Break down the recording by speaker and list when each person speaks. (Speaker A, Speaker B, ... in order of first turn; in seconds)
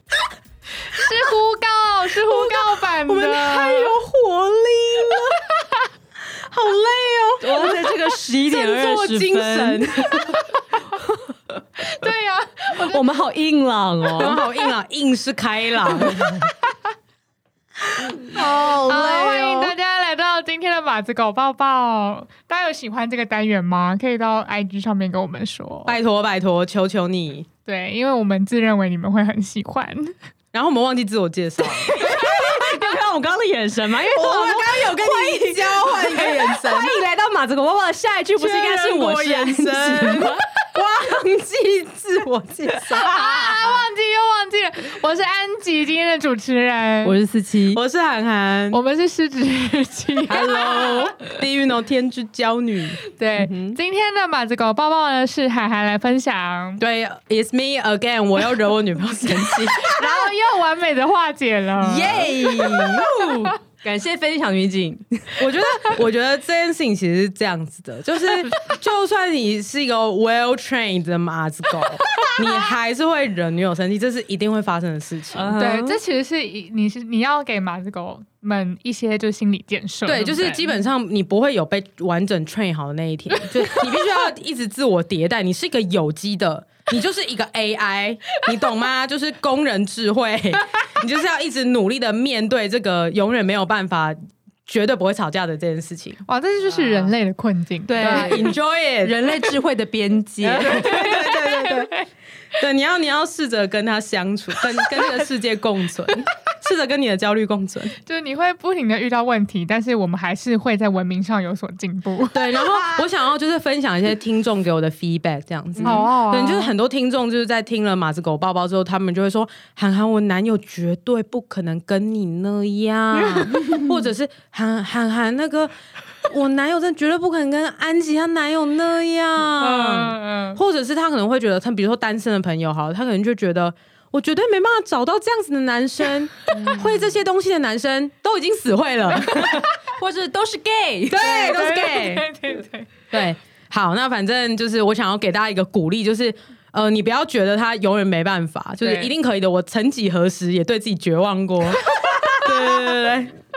Speaker A: 0.9-4.0, 11.8-13.1, 18.3-26.0, 27.6-30.1, 42.9-47.2, 48.7-51.2, 53.1-56.8, 59.8-62.9, 75.5-80.8, 83.5-83.8, 96.2-98.5, 100.7-102.0, 108.0-112.5, 115.8-116.7, 129.6-130.6, 141.2-142.9, 148.8-149.1, 151.9-152.5
Speaker B: 2.3-5.5, 6.3-10.2, 14.2-16.4, 25.9-27.5, 30.5-31.9, 34.1-37.0, 38.4-43.7, 47.7-48.8, 50.3-53.0, 56.8-60.0, 61.8-63.5, 65.4-75.5, 80.0-96.2, 96.7-97.1, 98.0-99.2, 100.4-101.9, 102.6-107.9, 112.3-125.7, 126.2-139.7, 141.1-142.2, 143.1-153.3
Speaker C: 7.4-10.2, 12.8-14.4, 18.2-19.7, 31.8-40.4, 47.0-47.8, 53.4-53.8, 63.8-65.5, 75.3-76.0, 97.9-101.2, 112.7-113.0, 136.6-137.2, 139.3-141.4